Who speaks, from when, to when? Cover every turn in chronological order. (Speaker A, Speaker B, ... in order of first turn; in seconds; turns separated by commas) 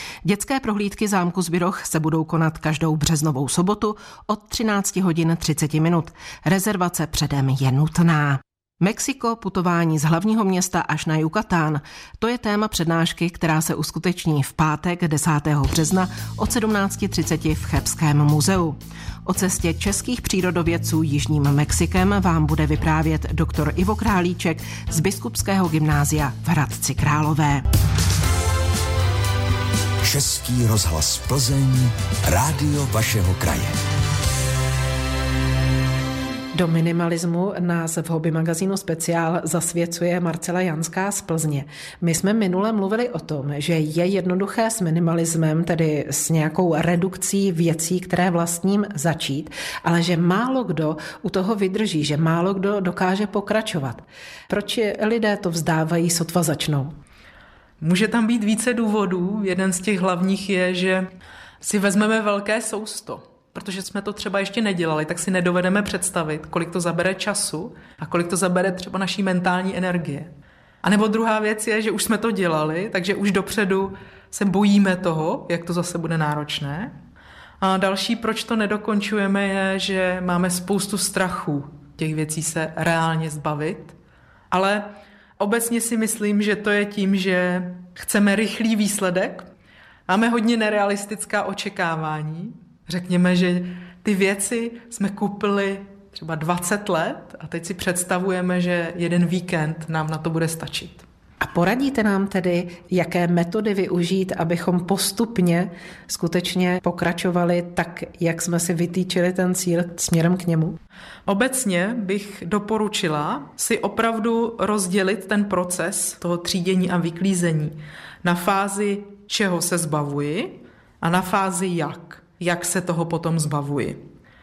Speaker A: 0.2-27.6, Speaker B: 30.0-33.8, Speaker A: 36.5-57.0, Speaker C: 57.8-61.1, Speaker C: 61.6-70.3, Speaker C: 70.8-76.9, Speaker C: 77.6-84.0, Speaker C: 84.5-89.5, Speaker C: 90.1-101.0, Speaker A: 101.4-110.8, Speaker C: 111.3-124.0